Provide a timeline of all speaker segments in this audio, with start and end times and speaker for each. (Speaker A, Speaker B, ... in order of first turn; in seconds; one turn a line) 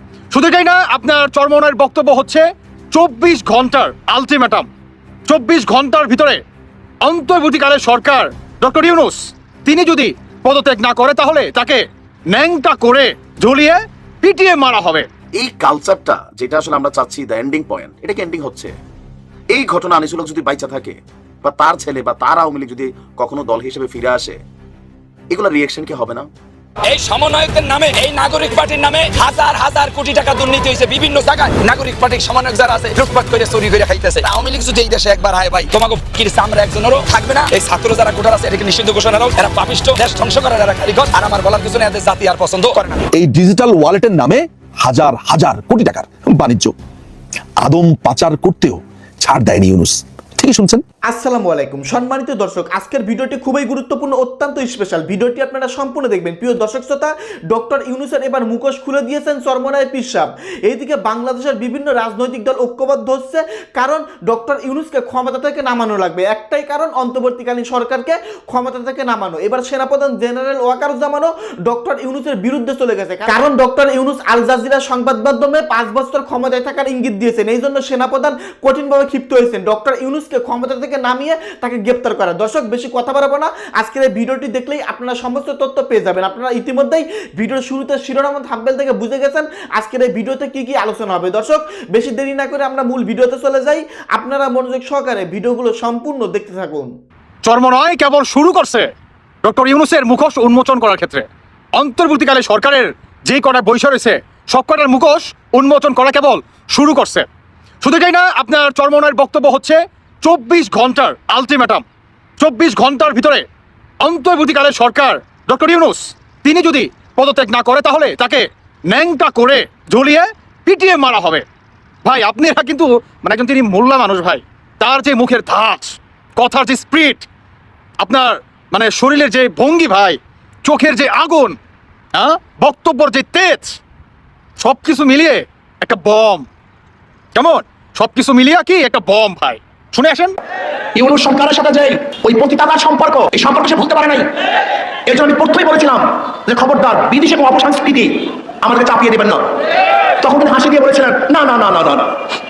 Speaker A: 0.3-4.7
Speaker A: 5.3-6.4
Speaker A: 7.0-15.1
Speaker B: 15.3-18.8
Speaker B: 19.5-24.4
Speaker B: 25.3-26.3
Speaker C: 26.9-43.1
Speaker D: 43.1-46.7
Speaker D: 47.6-50.8
Speaker E: 51.1-96.9
Speaker A: 97.5-98.9
Speaker A: 99.4-107.3
Speaker A: 107.8-111.8
Speaker A: 112.4-113.5
Speaker A: 114.0-121.5
Speaker A: 122.0-127.3
Speaker A: 128.0-131.6
Speaker A: 132.1-133.8
Speaker A: 134.6-136.5
Speaker A: 137.3-140.4
Speaker F: 140.9-144.3
Speaker F: 145.1-149.4
Speaker F: 150.2-152.1